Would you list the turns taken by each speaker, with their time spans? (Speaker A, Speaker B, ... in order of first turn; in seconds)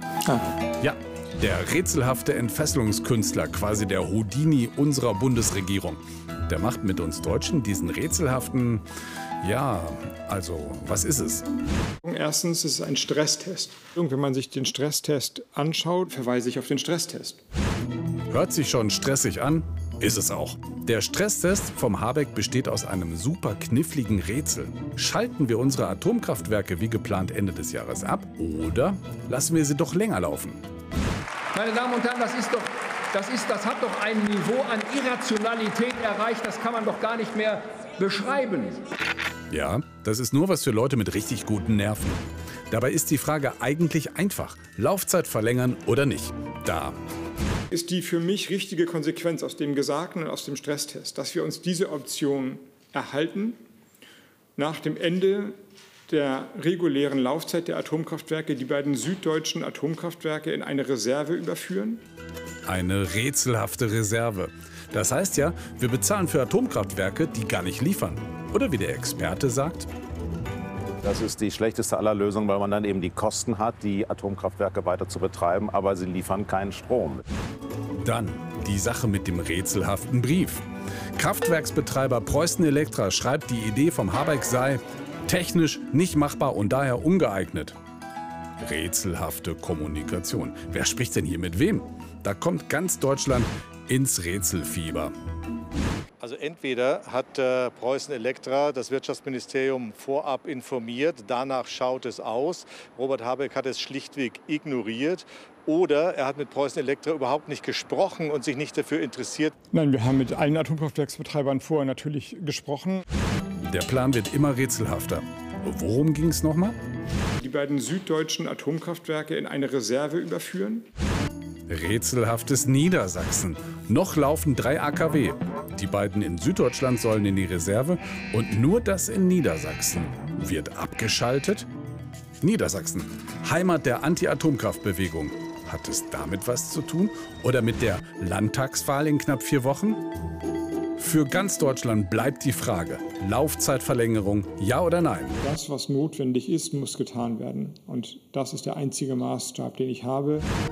Speaker A: 0.8-8.8, 9.4-11.4, 18.3-30.6, 39.5-47.0, 62.6-69.9, 78.0-80.6, 81.2-87.8, 88.6-95.1, 113.6-116.8, 121.7-131.7, 132.4-140.0, 141.0-145.4
Speaker B: 12.0-17.4, 47.7-53.6, 54.6-55.5, 56.1-62.0, 109.7-113.0, 117.4-120.8, 145.4-150.5
Speaker C: 31.5-38.8
Speaker D: 71.0-77.2
Speaker E: 96.2-109.5